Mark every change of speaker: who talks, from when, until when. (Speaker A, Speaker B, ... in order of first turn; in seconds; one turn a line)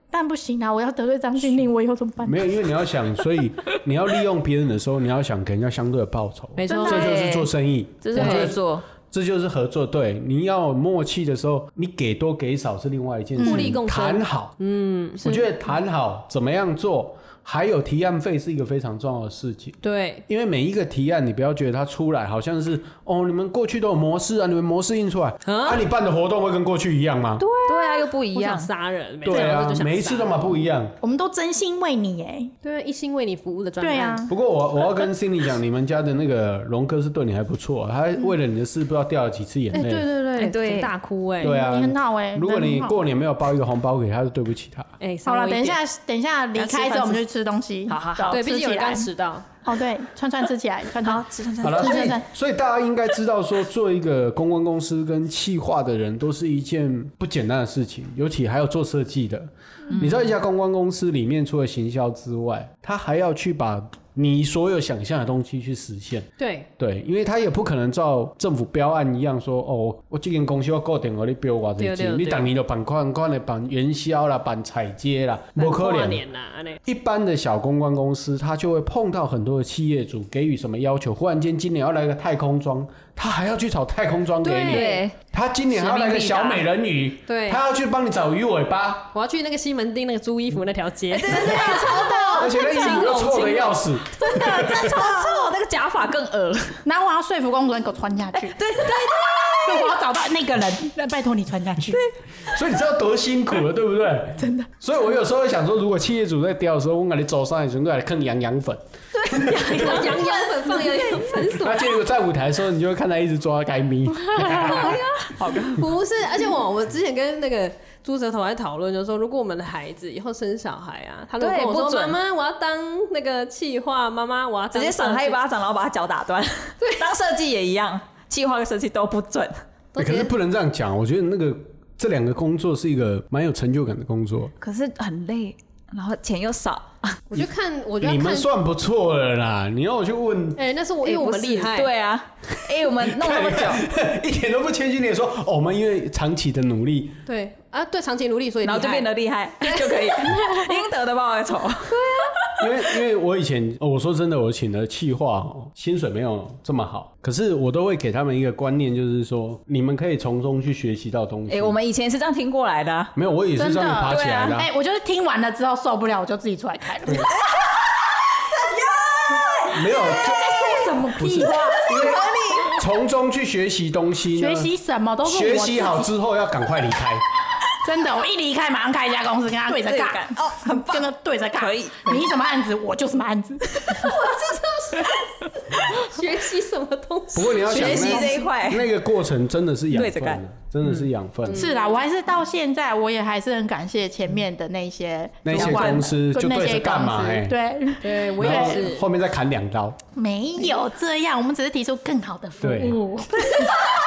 Speaker A: 0.1-2.7
Speaker B: 2.2-14.5
Speaker C: 6.6-7.2
Speaker D: 6.7-8.8
Speaker C: 8.1-8.5
Speaker C: 13.4-15.4
Speaker A: 13.4-13.7
Speaker B: 15.2-27.4
Speaker A: 15.2-15.5
Speaker C: 19.8-20.2
Speaker C: 25.4-25.9
Speaker C: 27.4-30.6
Speaker D: 27.6-28.7
Speaker B: 29.2-30.9
Speaker A: 31.0-32.5
Speaker C: 32.6-34.3
Speaker A: 33.8-34.3
Speaker B: 34.3-40.0
Speaker C: 39.7-41.5
Speaker D: 40.4-40.9
Speaker A: 41.4-43.0
Speaker B: 41.4-44.9
Speaker C: 45.0-45.8
Speaker A: 45.3-49.1
Speaker C: 46.5-47.2
Speaker D: 47.9-48.4
Speaker C: 48.2-49.5
Speaker A: 49.6-52.3
Speaker D: 51.0-52.2
Speaker B: 51.6-76.2
Speaker D: 59.9-60.3
Speaker C: 66.4-66.7
Speaker C: 71.8-72.5
Speaker C: 75.6-76.8
Speaker B: 76.8-89.1
Speaker C: 84.4-85.0
Speaker D: 84.6-85.2
Speaker D: 85.7-86.7
Speaker C: 87.3-87.6
Speaker C: 89.1-93.4
Speaker D: 91.1-96.8
Speaker A: 91.3-93.0
Speaker B: 92.4-95.0
Speaker A: 96.8-102.0
Speaker D: 98.4-100.0
Speaker B: 102.5-110.0
Speaker A: 104.4-104.7
Speaker D: 109.2-111.5
Speaker C: 109.6-111.9
Speaker B: 111.6-115.0
Speaker A: 114.3-114.8
Speaker D: 114.4-115.9
Speaker C: 115.7-125.4
Speaker D: 121.4-122.2
Speaker D: 124.7-129.6
Speaker C: 126.8-127.1
Speaker C: 129.9-130.3
Speaker B: 130.0-134.5
Speaker D: 134.6-137.2
Speaker C: 137.3-138.5
Speaker B: 138.0-140.6
Speaker C: 140.6-141.9
Speaker D: 141.0-143.8
Speaker B: 142.8-147.2
Speaker C: 147.3-149.1
Speaker D: 148.6-152.7
Speaker C: 149.6-150.8
Speaker C: 151.9-152.4
Speaker B: 152.6-161.8
Speaker D: 161.5-163.1
Speaker B: 163.2-164.7
Speaker A: 163.6-167.3
Speaker D: 164.0-164.6
Speaker D: 167.5-167.8
Speaker D: 168.3-172.8
Speaker B: 169.7-170.6
Speaker A: 170.0-172.7
Speaker B: 171.2-174.7
Speaker A: 174.3-176.1
Speaker B: 175.2-177.2
Speaker A: 177.7-184.1
Speaker D: 179.7-182.3
Speaker D: 183.8-184.3
Speaker C: 183.9-188.2
Speaker B: 187.3-191.7
Speaker D: 187.7-188.9
Speaker A: 187.8-188.5
Speaker D: 189.9-190.4
Speaker C: 191.4-192.0
Speaker A: 191.5-198.8
Speaker B: 195.4-197.6
Speaker D: 195.5-196.1
Speaker C: 198.0-199.0
Speaker B: 198.4-200.0
Speaker A: 200.2-203.9
Speaker B: 202.6-203.0